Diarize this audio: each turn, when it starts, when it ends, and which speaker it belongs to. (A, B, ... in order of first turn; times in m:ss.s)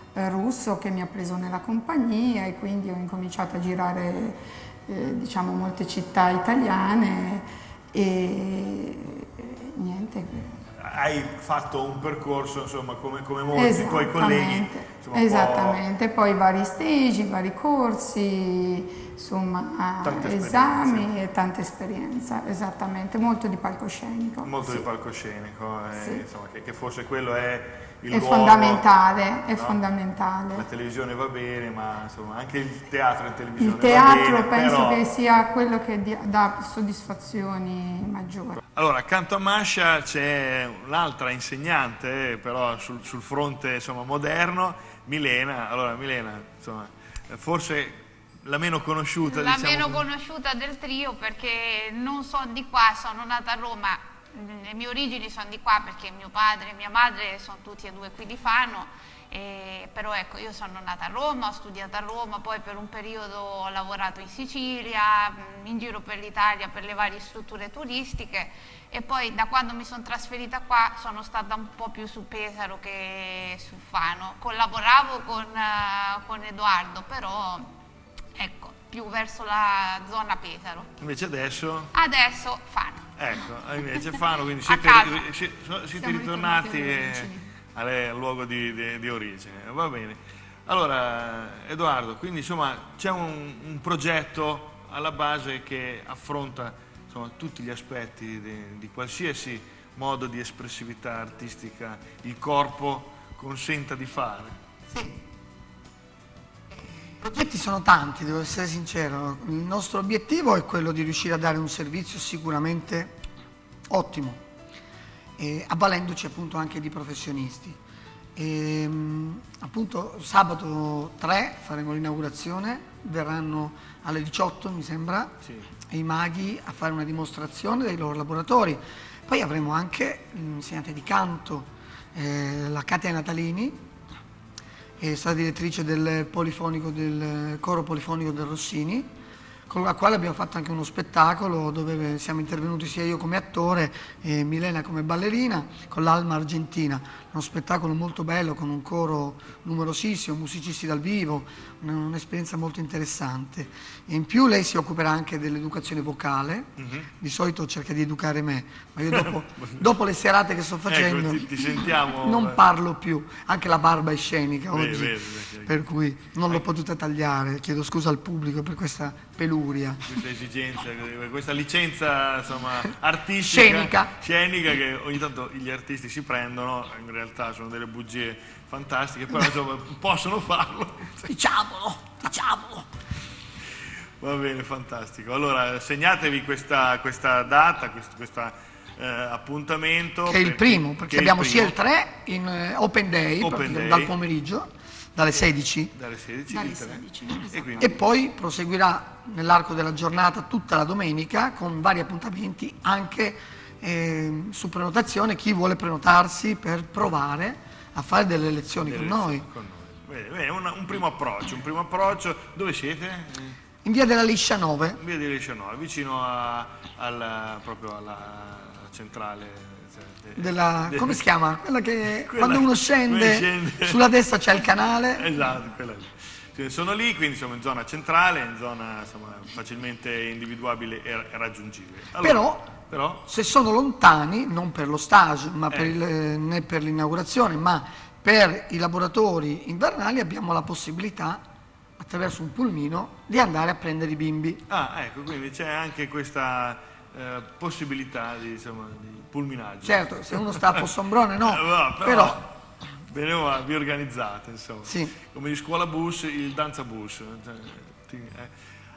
0:00.1-0:10.6 A
0:10.8-0:15.8 B
0:13.5-0:24.8 A
0:20.0-0:21.1 B
0:24.4-0:28.9 B
0:25.9-0:26.2 A
0:28.1-0:30.7 A
0:29.5-0:29.8 B
0:30.5-0:35.0 B
0:33.6-0:38.6 A
0:38.7-0:50.0 B
0:49.2-1:17.7 C
1:18.4-1:20.9 C
1:21.0-1:21.9 B
1:21.9-1:23.1 C
1:23.2-1:44.6 B
1:24.6-1:25.3 C
1:26.0-1:27.5 A
1:44.9-1:45.2 D
1:47.2-1:53.2 D
1:53.9-1:54.4 D
1:55.4-1:57.8 D
1:58.4-2:05.3 D
2:05.9-2:13.8 D
2:15.0-2:19.1 D
2:19.7-2:41.6 D
2:36.8-2:37.1 B
2:39.1-2:39.8 B
2:40.9-2:42.6 B
2:42.2-2:50.0 D
2:44.7-2:45.8 B
2:50.1-3:01.3 B
2:53.5-2:54.1 D
3:01.3-3:02.9 D
3:04.2-3:11.8 B
3:10.3-3:15.9 D
3:13.4-3:14.1 B
3:15.9-3:18.0 B
3:16.5-3:18.0 A
3:17.8-3:29.5 D
3:28.8-3:33.6 B
3:33.8-3:35.0 D
3:35.0-3:41.2 B
3:40.4-3:45.3 D
3:42.2-3:44.0 B
3:45.1-3:53.2 B
3:52.2-3:52.7 D
3:53.3-4:01.4 D
3:55.7-3:56.0 B
4:02.0-4:04.6 D
4:04.7-4:10.9 B
4:09.8-4:12.4 D
4:11.4-4:12.5 B
4:13.1-4:18.5 B
4:14.9-4:15.1 D